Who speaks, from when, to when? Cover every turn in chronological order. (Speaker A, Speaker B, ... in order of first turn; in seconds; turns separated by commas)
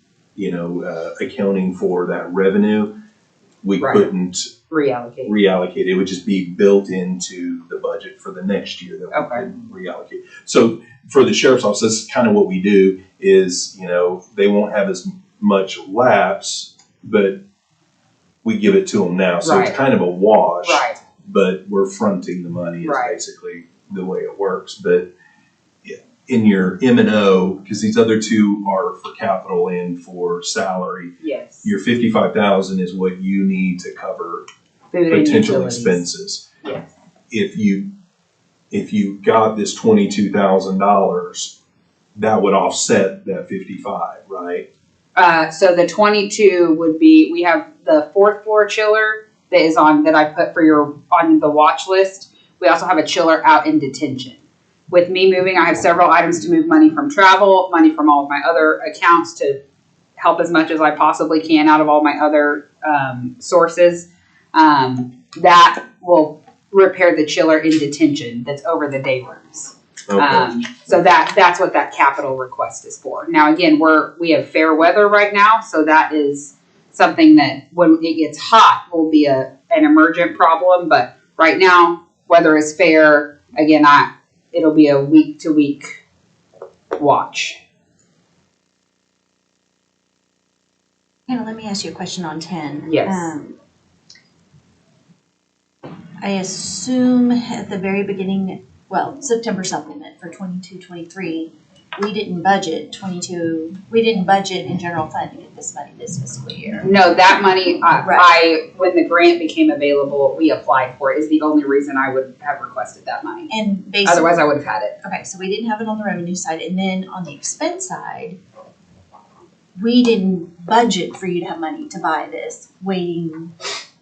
Speaker A: 0.4-2.9, Speaker A: 3.6-4.5, Speaker B: 3.8-4.1, Speaker B: 4.7-5.3, Speaker A: 5.2-17.4, Speaker B: 9.1-9.4, Speaker A: 18.4-25.1, Speaker B: 19.4-19.8, Speaker B: 20.6-21.0, Speaker B: 22.8-23.2, Speaker A: 25.8-34.5, Speaker B: 31.2-31.7, Speaker B: 34.9-36.0, Speaker A: 35.1-36.5, Speaker B: 36.6-36.9, Speaker A: 37.3-37.9, Speaker A: 38.7-41.6, Speaker A: 42.2-44.7, Speaker B: 45.2-54.4, Speaker B: 54.9-59.6, Speaker B: 60.2-85.9, Speaker A: 70.1-70.8, Speaker B: 87.0-87.6, Speaker C: 91.3-93.6, Speaker B: 92.8-93.3, Speaker C: 96.2-106.9, Speaker B: 106.8-113.5, Speaker C: 108.0-108.3, Speaker C: 113.5-114.4, Speaker B: 114.0-115.0, Speaker C: 115.0-118.4, Speaker C: 119.8-123.5